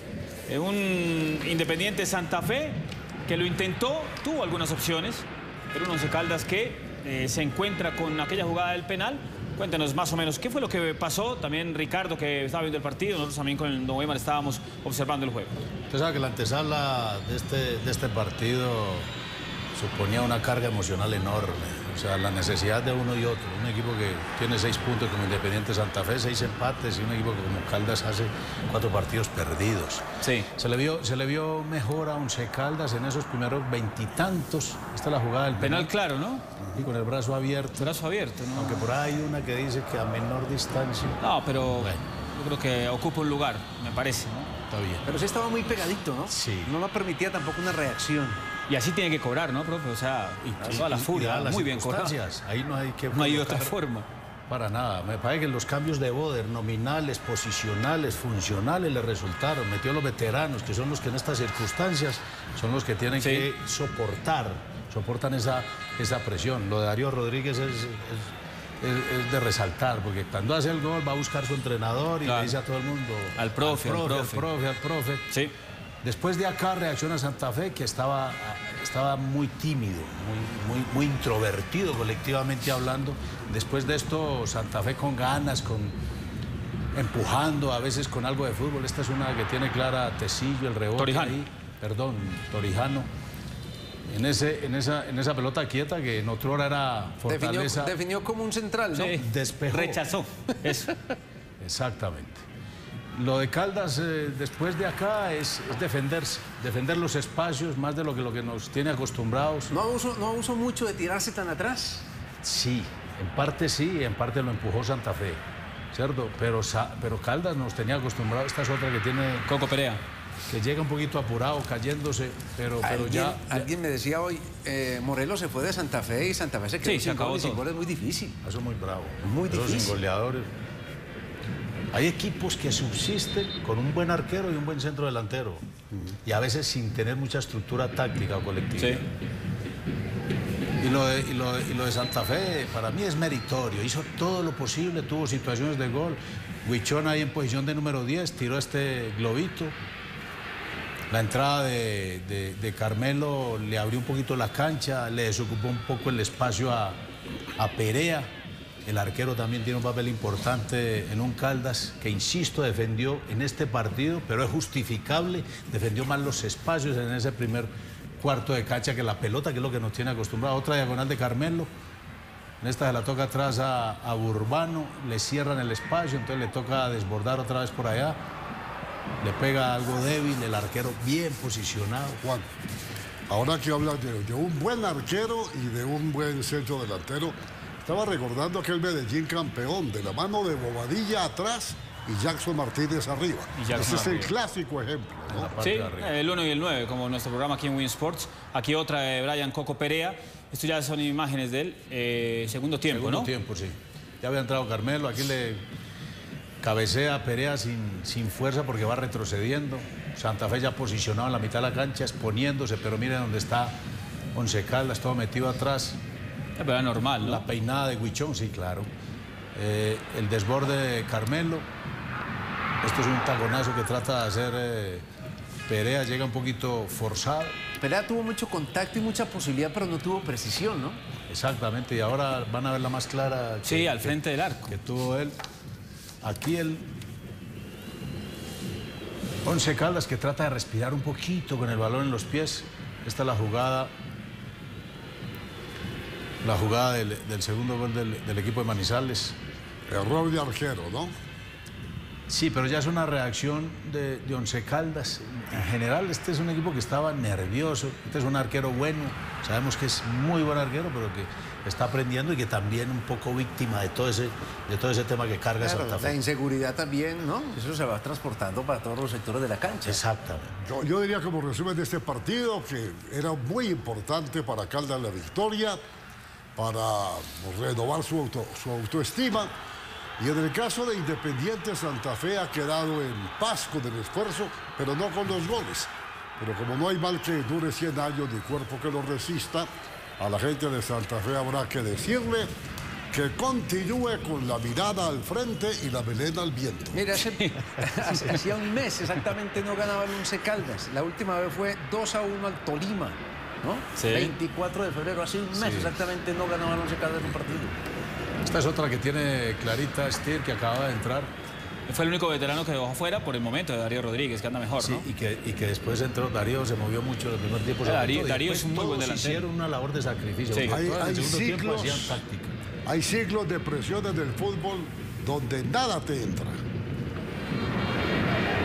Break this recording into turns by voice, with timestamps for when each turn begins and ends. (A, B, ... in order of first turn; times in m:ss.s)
0:00.5-0:15.5 A
0:15.9-0:19.1 B
0:19.7-0:35.9 B
0:30.2-0:30.5 A
0:35.5-0:36.4 A
0:36.7-0:37.9 B
0:37.8-0:39.0 A
0:38.5-0:41.2 B
0:41.2-0:44.5 A
0:41.8-0:42.0 B
0:44.7-0:45.0 B
0:45.1-0:48.4 C
0:46.3-0:46.7 B
0:48.7-0:52.2 A
0:50.4-0:53.8 B
0:53.1-0:54.1 A
0:54.5-1:15.3 B
1:03.2-1:03.5 A
1:12.2-1:12.6 A
1:13.4-1:14.5 A
1:16.0-1:26.0 B
1:26.9-1:33.1 B
1:31.0-1:31.4 A
1:34.1-1:38.0 B
1:37.3-1:39.2 C
1:38.9-1:40.9 A
1:39.0-1:40.0 B
1:41.6-1:42.4 B
1:43.1-1:49.7 B
1:49.7-1:52.1 C
1:52.4-1:55.4 B
1:55.9-1:59.5 B
1:59.4-2:00.0 A
2:00.5-2:03.7 B
2:02.8-2:08.4 C
2:06.8-2:07.6 A
2:08.4-2:10.5 B
2:09.2-2:10.0 C
2:11.9-2:15.6 B
2:16.2-2:19.0 B
2:18.8-2:19.0 A
2:20.8-2:29.8 B
2:31.1-2:37.0 B
2:37.6-2:38.3 B
2:38.8-2:51.7 B
2:52.6-2:58.2 B
2:59.2-3:02.2 B
3:03.3-3:15.5 D
3:13.6-3:14.3 A
3:15.3-3:16.1 B
3:15.6-3:23.3 A
3:22.9-3:25.6 B
3:26.6-3:33.8 B
3:34.3-3:36.0 B
3:36.6-3:37.4 A
3:37.2-3:38.9 B
3:39.6-3:41.7 B
3:42.8-3:45.0 B
3:45.7-3:47.6 B
3:47.8-3:51.0 C
3:51.3-3:54.2 B
3:53.6-3:54.7 A
3:54.7-3:55.4 B
3:56.2-3:56.8 B
3:59.4-4:03.9 B
4:06.4-4:09.4 B
4:09.9-4:11.1 D
4:12.3-4:26.2 B
4:25.6-4:30.0 C
4:29.8-4:30.6 B
4:30.6-4:35.8 D
4:36.6-4:39.5 D
4:40.2-4:52.5 D
4:53.1-4:57.0 D
4:56.9-5:07.8 C
5:04.0-5:04.4 A
5:05.5-5:06.0 B
5:08.4-5:11.3 B
5:11.9-5:15.1 A
5:14.8-5:22.6 B
5:17.8-5:19.4 A
5:20.5-5:20.8 A
5:20.7-5:22.2 D
5:22.9-5:26.6 D